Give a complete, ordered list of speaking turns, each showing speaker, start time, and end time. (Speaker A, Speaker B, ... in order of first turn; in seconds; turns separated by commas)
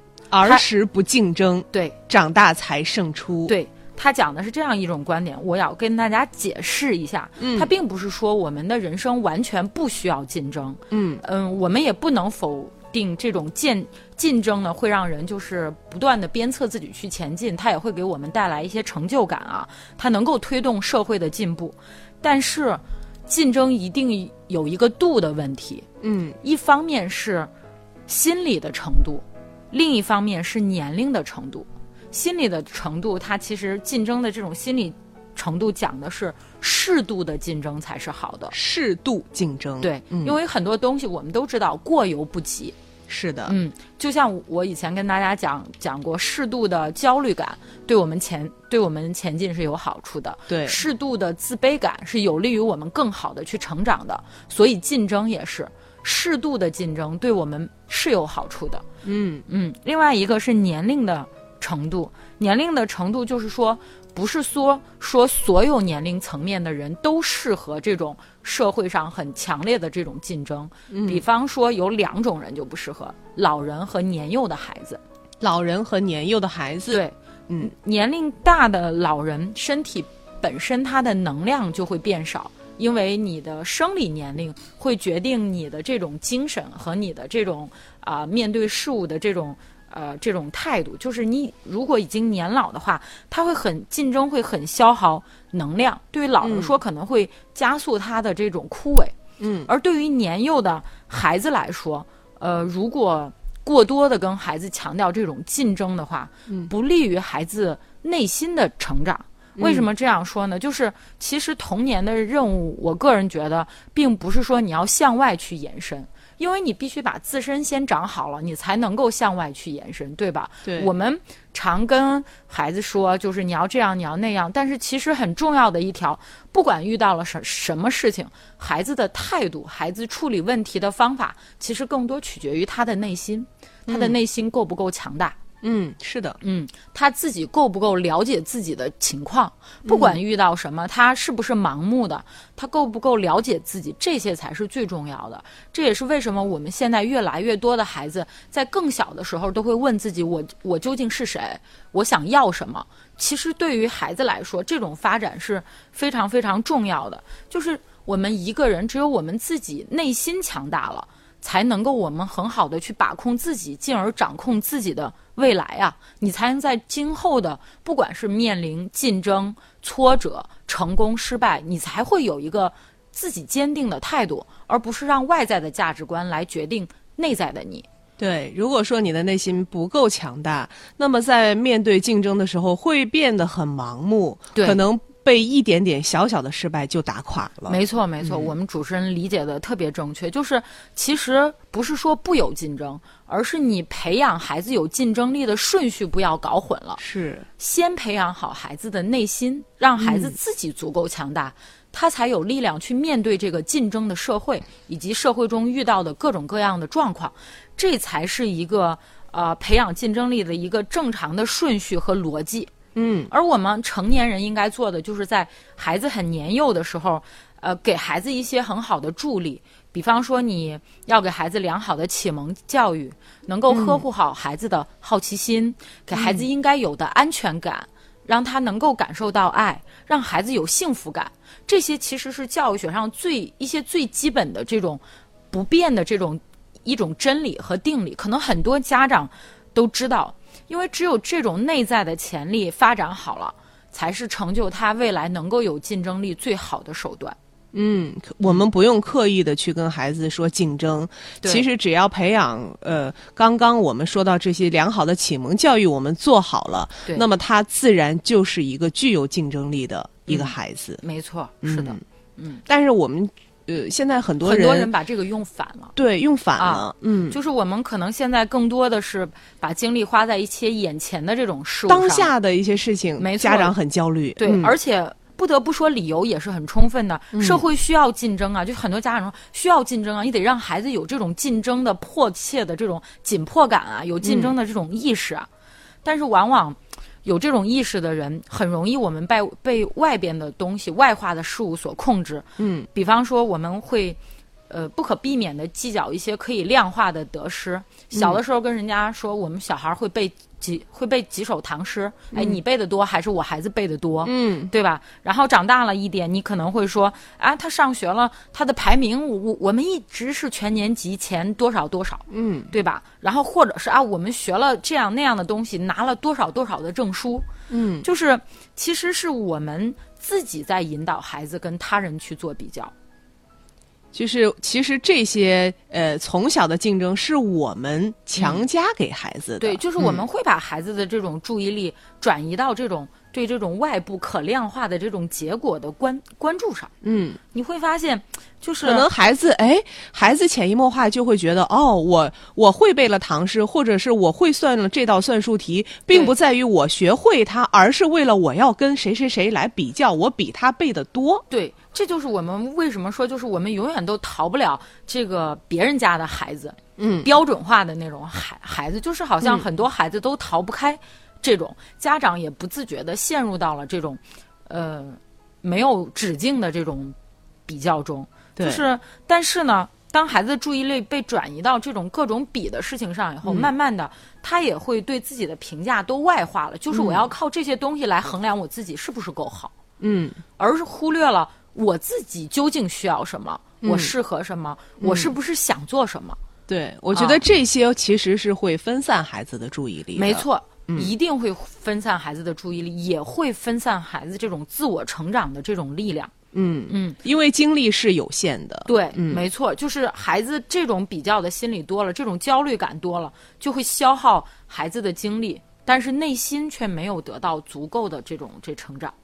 Speaker A: 0.3-3.5, Speaker B: 3.5-25.9, Speaker A: 7.4-7.7, Speaker A: 10.9-11.2, Speaker A: 26.0-26.4, Speaker B: 26.4-27.5, Speaker B: 28.1-38.5, Speaker A: 38.5-40.4, Speaker B: 39.8-42.8, Speaker A: 43.1-43.5, Speaker B: 43.5-58.9, Speaker A: 50.5-50.8, Speaker A: 59.0-59.5, Speaker B: 59.5-75.0, Speaker A: 70.9-71.2, Speaker A: 75.4-77.7, Speaker B: 76.9-99.2, Speaker A: 96.4-96.8, Speaker A: 99.4-99.7, Speaker B: 99.7-135.4, Speaker A: 109.6-109.9, Speaker A: 120.7-120.9, Speaker A: 133.9-134.2, Speaker A: 135.6-136.4, Speaker B: 136.4-177.9, Speaker A: 139.8-140.2, Speaker A: 178.2-188.5, Speaker B: 184.6-184.8, Speaker B: 187.7-197.0, Speaker A: 197.0-197.5, Speaker B: 197.6-212.7, Speaker A: 200.0-200.4, Speaker A: 212.9-213.3, Speaker B: 213.3-247.4, Speaker A: 223.7-224.0, Speaker A: 226.1-226.4, Speaker A: 247.7-261.0, Speaker B: 260.3-262.6, Speaker A: 261.6-262.0, Speaker A: 262.7-264.9, Speaker B: 264.4-265.9, Speaker A: 265.9-267.4, Speaker B: 266.6-272.3, Speaker A: 271.9-274.8, Speaker B: 273.2-273.8, Speaker B: 274.4-285.5, Speaker A: 277.3-277.6, Speaker A: 284.2-284.5, Speaker B: 286.0-294.2, Speaker A: 292.6-292.9, Speaker B: 294.7-317.5, Speaker A: 298.1-298.4, Speaker A: 302.3-302.6, Speaker A: 304.2-304.7, Speaker A: 312.3-312.7, Speaker A: 317.7-318.1, Speaker B: 318.0-322.9, Speaker A: 324.1-330.2, Speaker B: 328.4-328.6, Speaker B: 329.6-336.9, Speaker A: 337.0-337.4, Speaker B: 337.5-339.1, Speaker A: 338.8-351.4, Speaker B: 351.5-367.1, Speaker A: 357.0-357.3, Speaker B: 367.7-379.7, Speaker A: 368.6-368.8, Speaker A: 373.4-373.7, Speaker A: 376.9-377.3, Speaker A: 380.0-380.4, Speaker B: 380.6-386.4, Speaker A: 383.8-384.1, Speaker A: 385.0-385.3, Speaker A: 386.7-391.1, Speaker B: 387.1-387.4, Speaker B: 390.1-396.3, Speaker A: 396.5-399.4, Speaker B: 396.9-397.2, Speaker B: 398.9-409.1